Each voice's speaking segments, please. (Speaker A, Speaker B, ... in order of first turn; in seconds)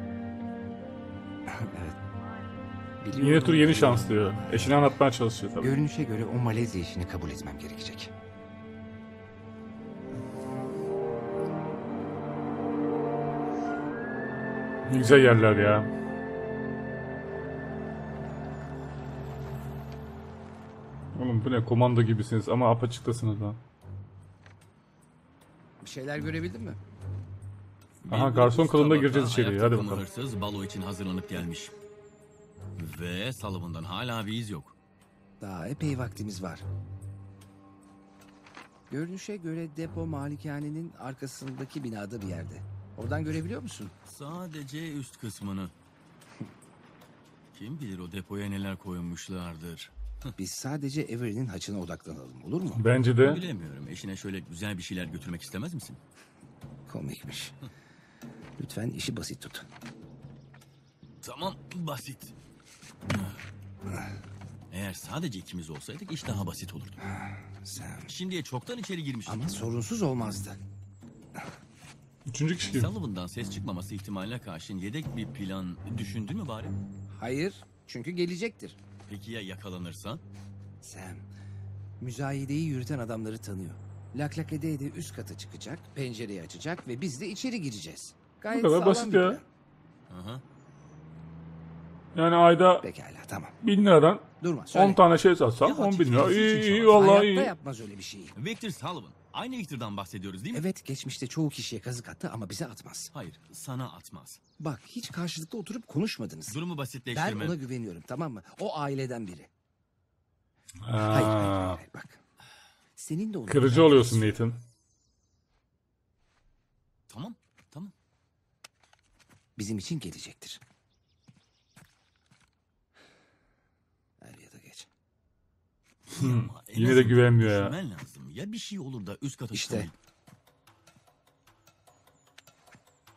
Speaker A: 1.5-2.0, 3.0-4.3, 5.6-8.1, 25.8-26.8, 35.4-36.6, 38.9-43.9, 50.4-52.8, 56.9-57.5, 58.6-59.6, 67.0-68.1, 69.3-70.6, 77.1-78.8, 80.8-81.3, 82.0-89.4, 92.8-93.6, 94.4-95.0, 96.9-98.3, 100.5-103.1, 104.6-106.6, 107.1-109.5, 111.0-112.2, 113.0-114.4, 119.5-120.6, 124.2-124.9, 129.5-129.9
Speaker B: 3.1-5.7, 14.9-15.9, 21.1-23.6, 28.0-30.0, 52.7-53.4, 72.3-72.9, 88.5-89.4, 92.1-92.9, 93.6-97.5, 110.8-111.8, 113.5-114.6, 126.1-127.7
Speaker C: 28.1-31.7, 32.8-34.7, 44.1-45.7, 47.5-50.3, 53.2-56.0, 61.2-62.3, 64.7-67.0, 68.1-69.4, 72.7-76.7, 79.1-80.2, 90.1-90.4, 95.6-97.0, 98.3-100.6, 103.1-104.4, 106.5-107.6, 117.1-117.9, 126.1-129.9